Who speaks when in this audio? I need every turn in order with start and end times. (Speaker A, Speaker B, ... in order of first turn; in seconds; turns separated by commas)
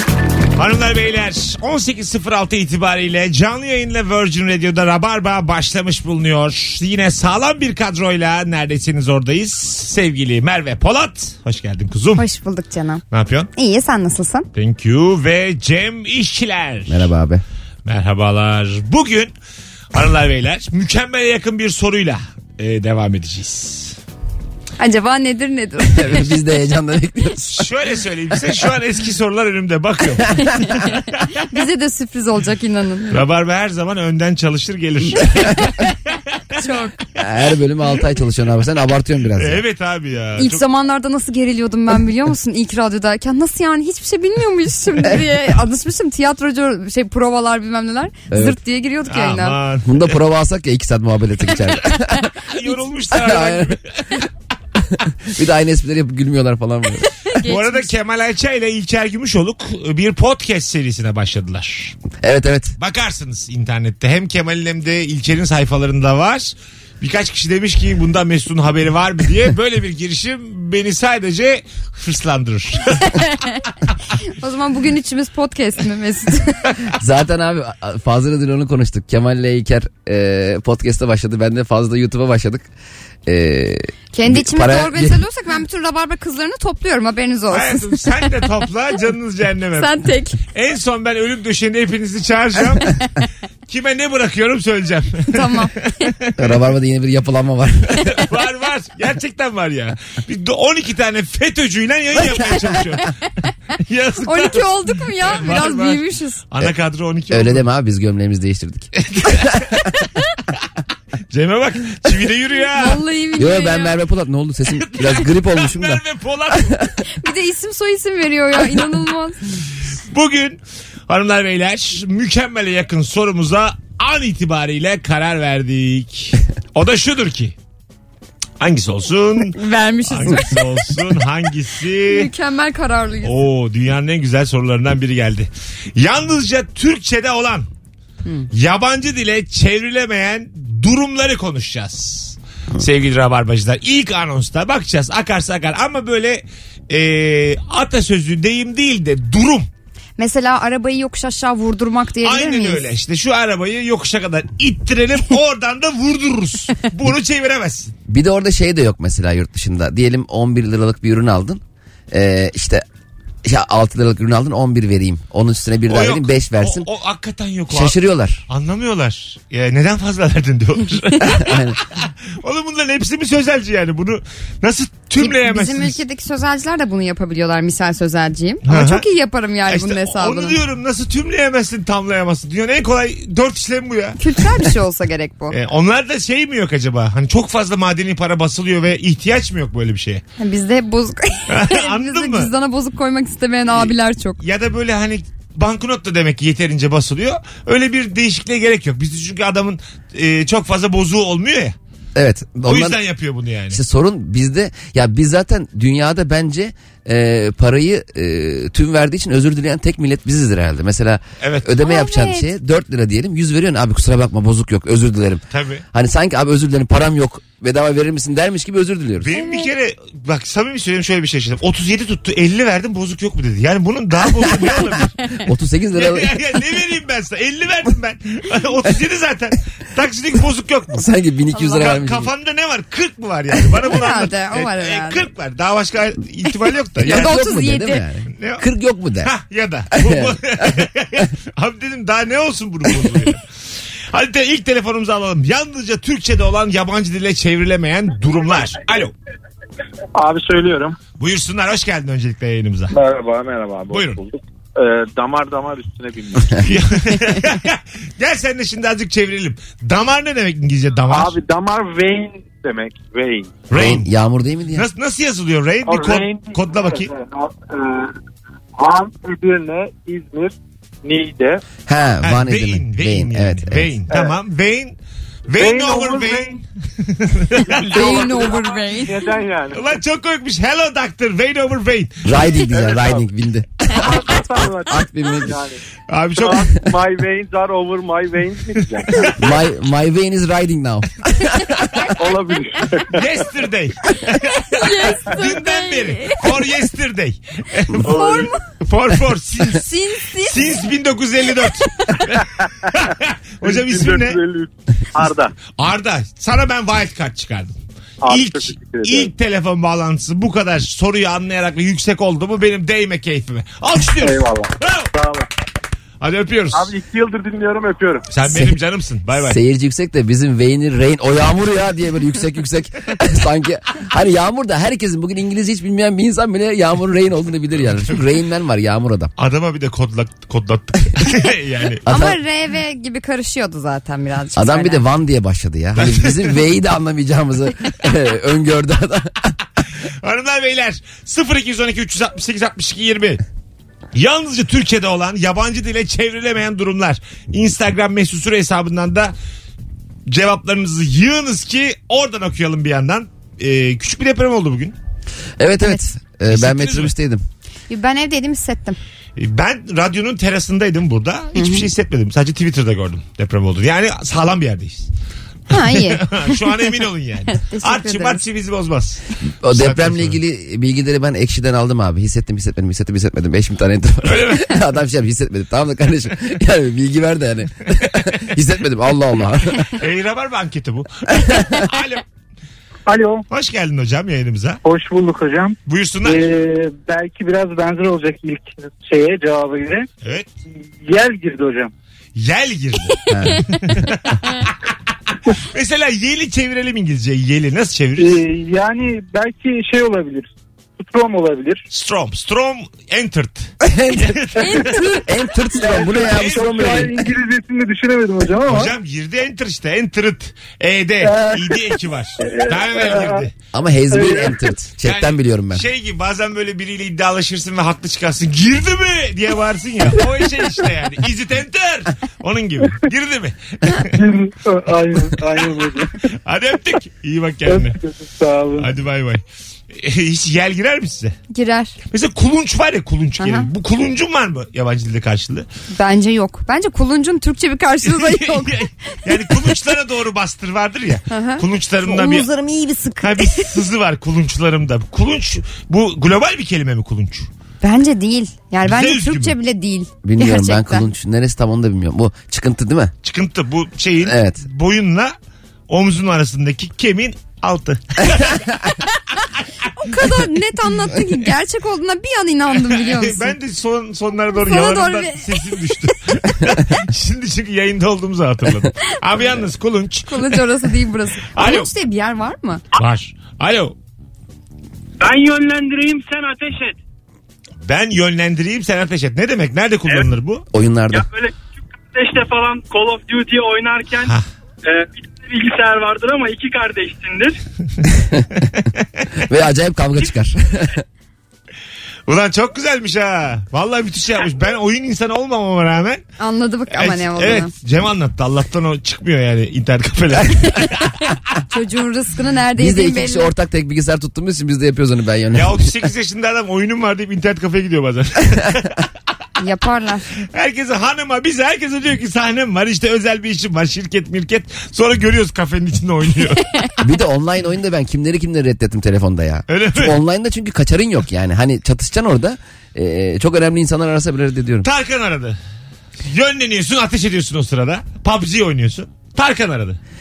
Speaker A: 0.6-12.2, Speaker B: 12.2-13.0, Speaker A: 13.1-13.5, Speaker B: 13.6-14.5, Speaker A: 14.6-17.1, Speaker C: 16.9-17.4, Speaker A: 17.9-19.3, Speaker A: 19.9-24.0, Speaker B: 24.8-26.3, Speaker C: 25.9-27.6, Speaker A: 27.4-30.8, Speaker B: 31.5-33.2, Speaker A: 33.1-35.8, Speaker B: 36.6-36.9, Speaker C: 37.2-39.6, Speaker A: 39.4-40.6, Speaker B: 40.4-49.6, Speaker C: 48.3-48.6, Speaker A: 49.1-50.2, Speaker C: 49.8-52.3, Speaker A: 52.5-54.3, Speaker C: 53.1-53.8, Speaker C: 54.9-57.2, Speaker B: 57.3-57.9, Speaker A: 57.5-62.0, Speaker C: 62.2-62.8, Speaker A: 62.8-73.1, Speaker B: 73.0-73.6, Speaker B: 74.4-76.7, Speaker C: 77.0-82.7, Speaker C: 83.3-85.2, Speaker B: 84.1-88.0, Speaker A: 87.5-90.0, Speaker B: 89.8-90.4, Speaker A: 90.5-93.0, Speaker A: 93.7-96.6, Speaker B: 95.3-95.7, Speaker C: 96.4-98.1, Speaker A: 98.2-103.1, Speaker B: 102.2-102.7, Speaker A: 103.8-107.6, Speaker B: 104.2-106.4, Speaker C: 107.3-109.6, Speaker A: 109.0-109.7, Speaker A: 111.3-113.0, Speaker B: 112.7-114.0, Speaker C: 113.4-116.7, Speaker A: 114.7-116.7, Speaker B: 117.2-119.4, Speaker A: 120.1-127.5, Speaker A: 128.6-132.3, Speaker B: 129.6-131.0, Speaker B: 132.0-133.3, Speaker A: 133.2-137.7, Speaker A: 138.5-149.7, Speaker B: 150.2-152.8, Speaker A: 152.2-157.9, Speaker C: 158.1-162.8, Speaker C: 163.4-166.9, Speaker A: 165.9-168.0, Speaker C: 167.7-168.4, Speaker A: 168.5-176.0, Speaker C: 171.2-171.8, Speaker B: 175.2-180.6, Speaker A: 178.7-179.1, Speaker A: 179.7-184.7, Speaker B: 184.2-185.6, Speaker A: 185.5-190.2, Speaker B: 190.4-194.4, Speaker A: 191.5-192.5, Speaker A: 193.7-201.8, Speaker C: 202.2-203.0, Speaker A: 202.6-203.8, Speaker C: 203.7-219.3, Speaker A: 211.4-211.7, Speaker B: 211.8-212.5, Speaker A: 215.5-215.8, Speaker A: 219.2-225.2, Speaker B: 219.3-219.7, Speaker C: 225.5-226.4, Speaker A: 225.9-231.0, Speaker C: 230.9-232.3, Speaker B: 231.6-232.0, Speaker A: 231.7-237.4, Speaker B: 233.9-235.3, Speaker C: 237.0-239.3, Speaker B: 237.1-238.0, Speaker A: 238.4-238.7, Speaker A: 239.2-243.4, Speaker C: 239.9-240.9, Speaker A: 244.1-249.1, Speaker D: 250.2-251.0, Speaker A: 251.2-252.9, Speaker D: 252.9-256.7, Speaker A: 253.9-254.2, Speaker A: 256.6-261.4, Speaker D: 261.1-263.6, Speaker A: 263.7-264.1, Speaker C: 263.7-264.9, Speaker A: 264.7-267.1, Speaker D: 265.9-268.1, Speaker D: 268.8-271.6, Speaker C: 271.9-273.9, Speaker A: 272.2-275.0, Speaker A: 275.5-278.2, Speaker D: 275.6-276.6, Speaker D: 277.6-280.0, Speaker B: 277.9-279.3, Speaker A: 279.7-282.3, Speaker C: 282.2-285.6, Speaker D: 282.8-283.2, Speaker D: 283.9-285.8, Speaker A: 286.1-286.7, Speaker D: 286.4-289.3, Speaker A: 288.8-289.3, Speaker C: 289.4-291.8, Speaker D: 292.2-293.2, Speaker A: 293.1-299.9, Speaker B: 294.6-296.5, Speaker B: 298.0-298.6, Speaker D: 298.1-298.5, Speaker B: 299.7-300.6, Speaker A: 300.4-304.4, Speaker D: 303.6-305.5, Speaker A: 305.8-315.1, Speaker D: 308.2-309.3, Speaker D: 314.2-315.5, Speaker A: 316.2-316.9, Speaker D: 316.7-318.3, Speaker A: 318.3-319.6, Speaker C: 318.4-318.8, Speaker C: 319.4-329.3, Speaker A: 329.4-332.0, Speaker C: 332.1-332.4, Speaker B: 332.1-335.0, Speaker C: 334.6-339.5, Speaker A: 336.0-336.6, Speaker A: 340.2-343.4, Speaker A: 344.1-349.3, Speaker A: 350.3-354.9, Speaker C: 355.6-357.4, Speaker A: 356.5-357.1, Speaker B: 357.9-359.0, Speaker A: 359.4-365.1, Speaker B: 361.6-361.9, Speaker B: 365.7-366.9, Speaker A: 365.7-370.4, Speaker B: 367.5-368.4, Speaker C: 369.6-379.9, Speaker A: 374.2-374.8, Speaker A: 380.0-382.2, Speaker E: 383.1-383.5, Speaker A: 383.5-384.8, Speaker E: 384.8-390.1, Speaker A: 385.9-386.4, Speaker A: 390.2-390.5, Speaker E: 391.1-391.9, Speaker A: 392.4-393.2, Speaker C: 393.3-394.0, Speaker A: 393.8-394.7, Speaker A: 395.6-398.4, Speaker E: 398.2-401.8, Speaker A: 401.9-405.1, Speaker C: 403.8-407.1, Speaker E: 405.7-408.9, Speaker A: 406.1-407.1, Speaker A: 408.7-413.5, Speaker E: 411.2-411.6, Speaker E: 412.4-413.4, Speaker C: 413.7-415.8, Speaker E: 414.1-414.7, Speaker A: 415.0-424.2, Speaker E: 424.2-426.1, Speaker A: 426.5-428.0, Speaker E: 427.7-428.9, Speaker A: 428.8-431.4, Speaker B: 431.5-432.0, Speaker A: 432.1-435.7, Speaker B: 433.4-433.7, Speaker B: 435.9-438.9, Speaker A: 438.1-442.5, Speaker B: 441.3-443.7, Speaker A: 443.2-447.5, Speaker B: 447.8-451.1, Speaker A: 448.8-449.6, Speaker C: 450.2-453.1, Speaker A: 453.2-455.3, Speaker C: 454.2-454.6, Speaker A: 455.9-458.6, Speaker B: 459.9-463.6, Speaker A: 462.7-470.6, Speaker B: 464.5-465.8, Speaker B: 470.3-472.8, Speaker A: 471.5-471.9, Speaker A: 472.9-474.0, Speaker F: 475.2-477.0, Speaker A: 477.9-480.7, Speaker C: 480.7-481.2, Speaker F: 481.1-481.6, Speaker F: 482.1-484.3, Speaker F: 484.8-487.6, Speaker C: 489.5-491.0, Speaker A: 492.3-496.2, Speaker B: 496.4-497.7, Speaker A: 496.9-501.2, Speaker B: 501.7-503.5, Speaker C: 502.8-505.9, Speaker A: 505.5-509.1, Speaker B: 509.6-510.3, Speaker A: 510.5-516.7, Speaker C: 517.0-524.9, Speaker A: 519.7-520.2, Speaker A: 524.8-525.6, Speaker A: 526.2-530.0